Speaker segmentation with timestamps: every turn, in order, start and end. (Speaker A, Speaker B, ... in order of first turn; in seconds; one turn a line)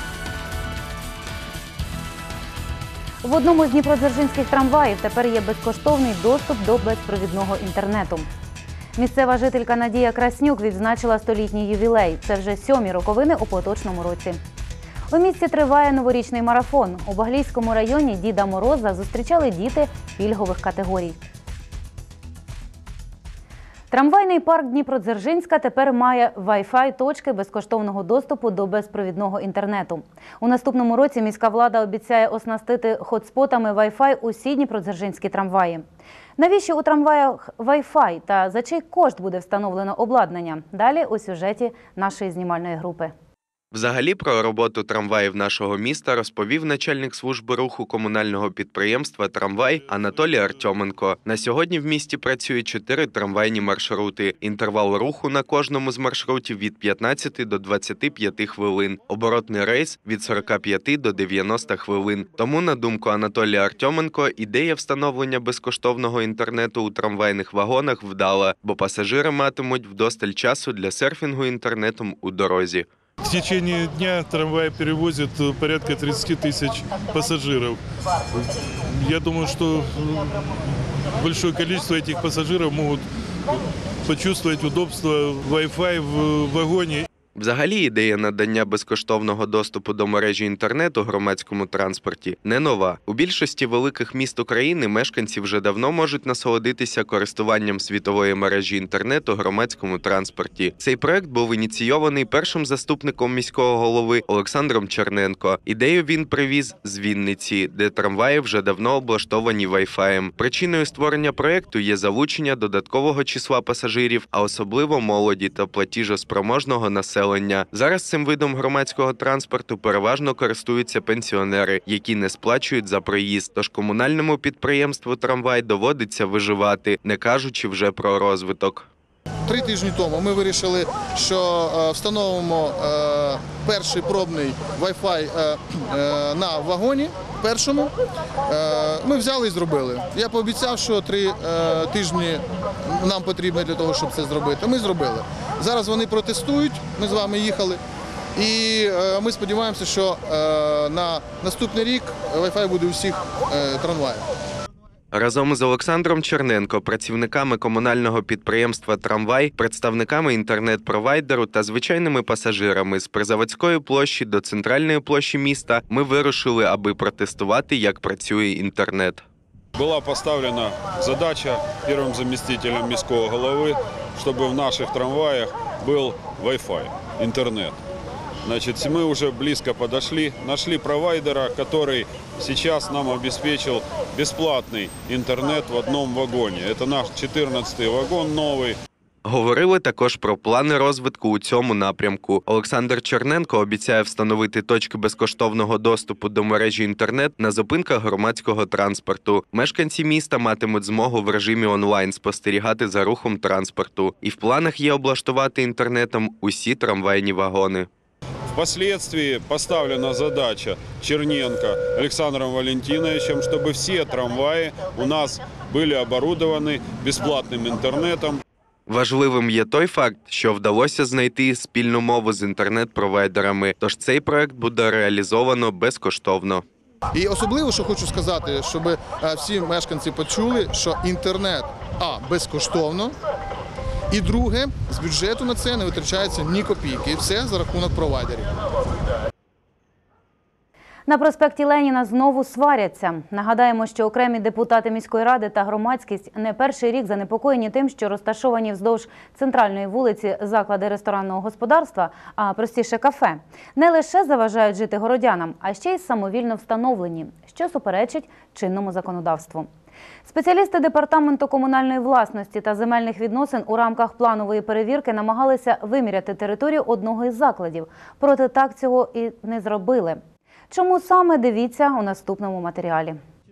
Speaker A: 3.2-8.3
Speaker A: 9.0-14.4
Speaker A: 15.1-21.2
Speaker A: 23.9-35.8
Speaker A: 36.4-43.1
Speaker B: 43.7-72.9
Speaker C: 73.2-77.8
Speaker C: 78.9-80.2
Speaker C: 81.2-83.0
Speaker C: 84.1-87.0
Speaker B: 87.4-128.9
Speaker D: 129.5-137.9
Speaker D: 138.5-142.4
Speaker D: 142.9-147.8
Speaker D: 148.4-154.2
Speaker B: 155.1-169.2
Speaker E: 169.8-177.8
Speaker E: 178.4-188.8
Speaker B: 189.3-207.9
Speaker E: 208.5-218.4
Speaker B: 218.9-226.6
Speaker D: 227.2-233.1
Speaker D: 234.1-238.5
Speaker A: 241.1-259.7
Speaker A: 260.3-270.2
Speaker A: 270.7-273.2